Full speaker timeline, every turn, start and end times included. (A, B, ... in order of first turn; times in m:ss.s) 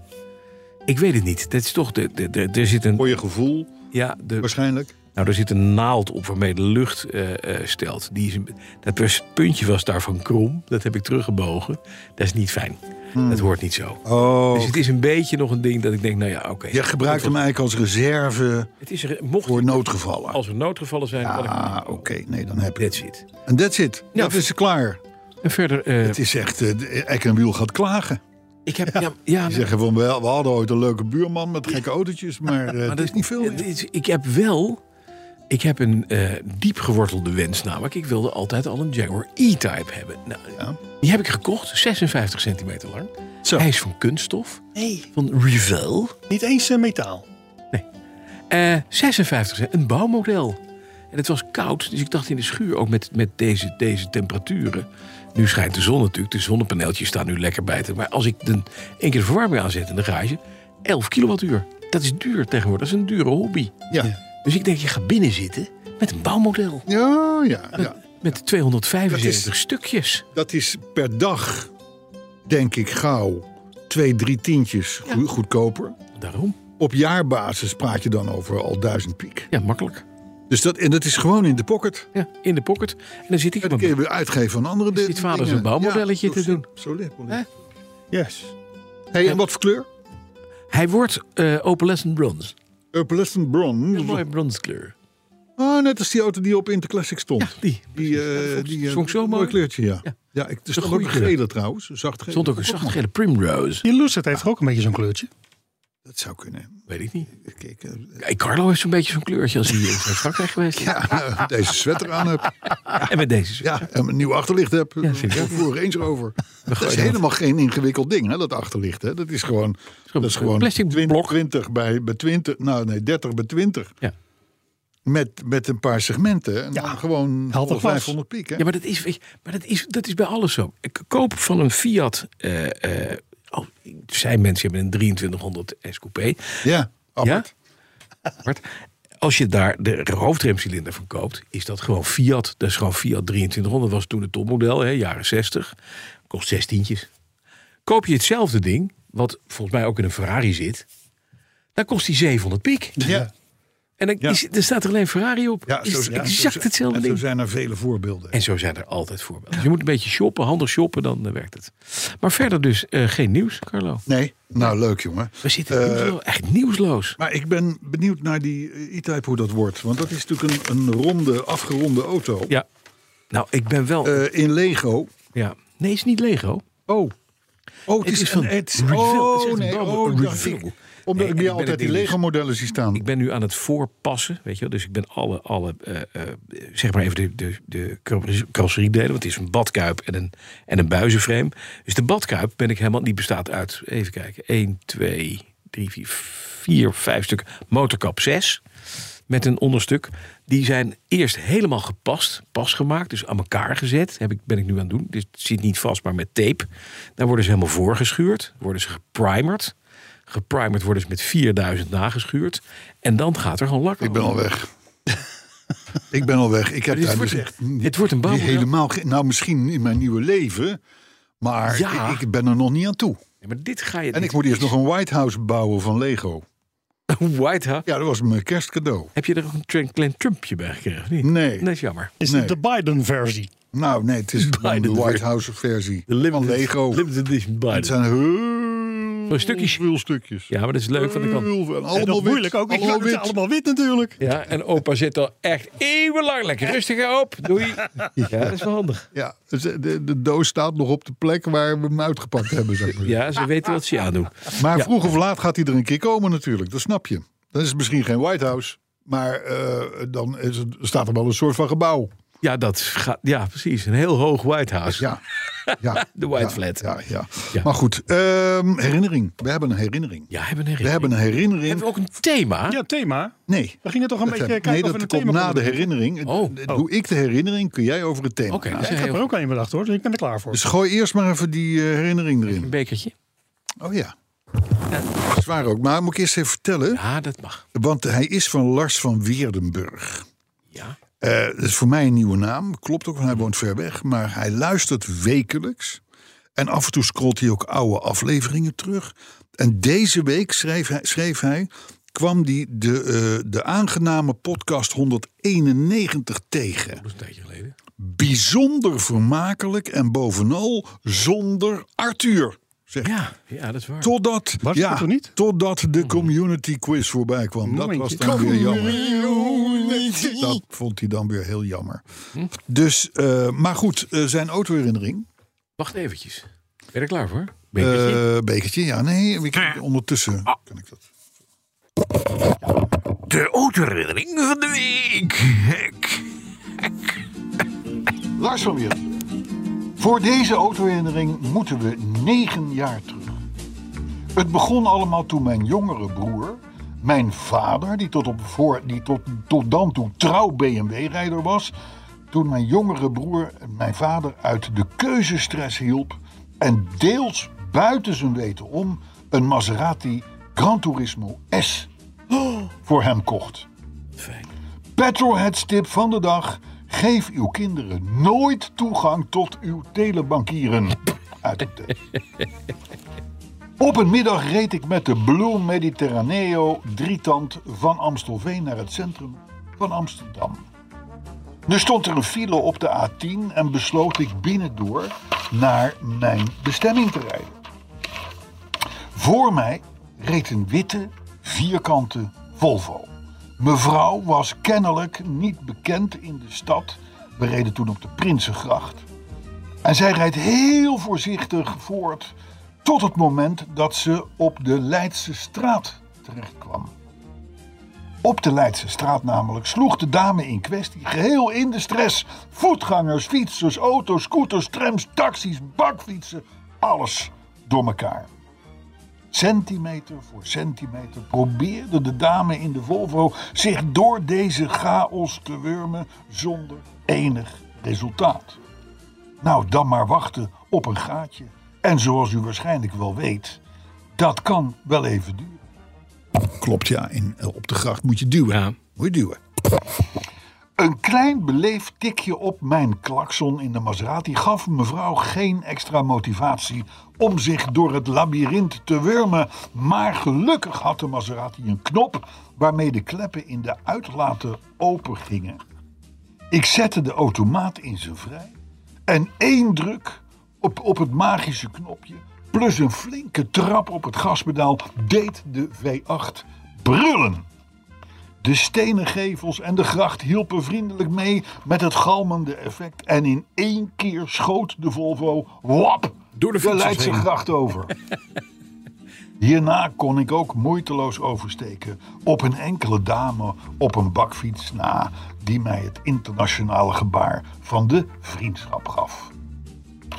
0:00.9-0:03.1 A
0:03.0-0:03.7 B
0:03.9-0:04.5 A
0:04.4-0:04.9 B
0:05.1-0:14.0 A
0:13.1-0:13.5 B
0:14.0-0:14.8 B
0:14.5-0:17.4 A
0:16.7-0:18.7 B
0:18.8-0:22.0 A
0:19.4-0:20.4 B
0:21.2-0:25.0 B
0:22.8-0:23.2 A
0:24.1-0:24.4 A
0:25.4-0:26.2 A
0:26.0-0:28.2 B
0:28.6-0:29.7 A
0:29.4-0:33.7 B
0:32.8-0:34.8 A
0:35.5-0:44.6 A
0:44.8-0:45.1 C
0:45.1-0:46.1 A
0:46.3-0:47.2 C
0:48.5-0:50.6 A
0:51.1-1:03.7 A
1:04.4-1:06.9 A
1:06.9-1:08.0 B
1:07.8-1:10.2 A
1:09.1-1:09.5 B
1:10.3-1:11.7 B
1:12.5-1:16.0 B
1:16.1-1:16.6 A
1:16.8-1:19.5 B
1:19.5-1:20.0 A
1:20.5-1:22.1 B
1:22.1-1:24.0 A
1:23.6-1:27.4 B
1:24.9-1:26.6 A
1:28.1-1:28.5 C
1:29.1-1:29.9 B
1:30.7-1:32.5 A
1:32.9-1:34.2 B
1:33.9-1:34.9 A
1:35.6-1:43.0 B
1:37.4-1:40.1 A
1:40.7-1:41.3 A
1:42.3-1:43.8 A
1:43.8-1:45.3 C
1:46.0-1:48.2 B
1:46.9-1:47.3 A
1:48.2-1:51.2 A
1:50.7-1:53.1 B
1:52.8-1:53.9 A
1:53.6-2:03.9 B
1:55.0-1:55.6 A
1:56.7-1:57.2 A
2:00.1-2:01.4 A
2:05.0-2:08.6 B
2:07.5-2:08.1 C
2:08.6-2:16.6 A
2:16.6-2:17.5 B
2:17.2-2:17.5 A
2:19.2-2:25.7 A
2:26.3-2:27.1 A
2:27.8-2:30.8 A
2:31.8-2:33.0 A
2:33.0-2:33.3 B
2:34.0-2:37.2 A
2:35.7-2:38.4 B
2:38.3-2:44.0 A
2:44.1-2:46.2 B
2:45.4-2:47.2 A
2:47.2-2:52.5 B
2:53.3-2:54.2 A
2:54.0-2:55.1 B
2:55.3-2:56.6 A
2:56.9-2:57.1 B
2:57.9-3:03.0 B
2:58.0-3:02.2 A
3:02.9-3:18.6 A
3:19.3-3:29.7 A
3:30.3-3:34.4 A
3:34.0-3:34.7 B
3:36.1-3:40.8 B
3:36.9-3:38.7 A
3:41.4-3:43.2 B
3:41.7-3:42.2 A
3:43.4-3:44.7 A
3:44.1-3:46.4 B
3:47.1-3:47.9 A
3:47.8-3:49.1 B
3:49.1-3:52.1 A
3:51.2-3:51.7 B
3:52.2-3:53.5 C
3:52.2-3:52.6 B
3:53.7-3:57.0 B
3:54.4-3:55.2 A
3:56.1-3:57.9 A
3:57.7-4:03.4 B
3:59.3-3:59.8 A
4:00.5-4:01.5 A
4:01.9-4:04.2 C
4:04.2-4:09.1 A
4:08.1-4:08.6 B
4:09.1-4:13.2 B
4:12.9-4:14.9 A
4:14.5-4:22.1 B
4:22.4-4:25.1 A
4:25.0-4:25.2 B
4:25.6-4:26.9 A
4:25.8-4:30.3 B
4:30.3-4:31.1 A
4:30.8-4:31.9 B
4:31.6-4:32.8 A
4:32.7-4:35.9 C
4:33.5-4:38.9 B
4:36.2-4:36.8 A
4:38.5-4:39.3 A
4:38.8-4:40.6 C
4:40.5-4:42.7 B
4:42.5-4:43.1 A
4:43.8-4:44.1 B
4:45.0-4:47.0 B
4:46.9-4:47.6 A
4:47.7-4:50.2 B
4:50.7-4:51.0 A
4:51.2-4:56.0 B
4:56.6-5:07.0 B
5:06.9-5:07.8 A
5:08.0-5:13.2 B
5:13.0-5:14.1 A
5:14.0-5:25.3 B
5:14.6-5:15.3 C
5:16.0-5:16.3 A
5:17.6-5:20.4 C
5:25.8-5:28.2 A
5:27.8-5:31.0 B
5:33.3-5:36.2 A
5:38.3-5:39.1 B
5:40.0-5:43.4 B
5:44.3-5:51.7 B
5:52.3-6:01.9 B
6:02.8-6:03.7 B
6:04.2-6:04.5 A
6:05.0-6:11.9 B
6:13.8-6:20.6 B
6:21.7-6:27.6 B
6:29.1-6:39.0 B
6:39.8-6:46.9 B
6:48.2-6:58.3 B
6:59.3-7:08.6 B
7:09.4-7:13.6 B
7:14.2-7:15.6 B
7:16.4-7:19.4 B
7:18.5-7:18.8 A
7:20.8-7:35.6 B
7:36.5-7:38.5 B
7:39.1-7:47.4 B
7:48.4-7:57.9 B
7:56.4-7:57.3 A
7:59.4-8:09.3 B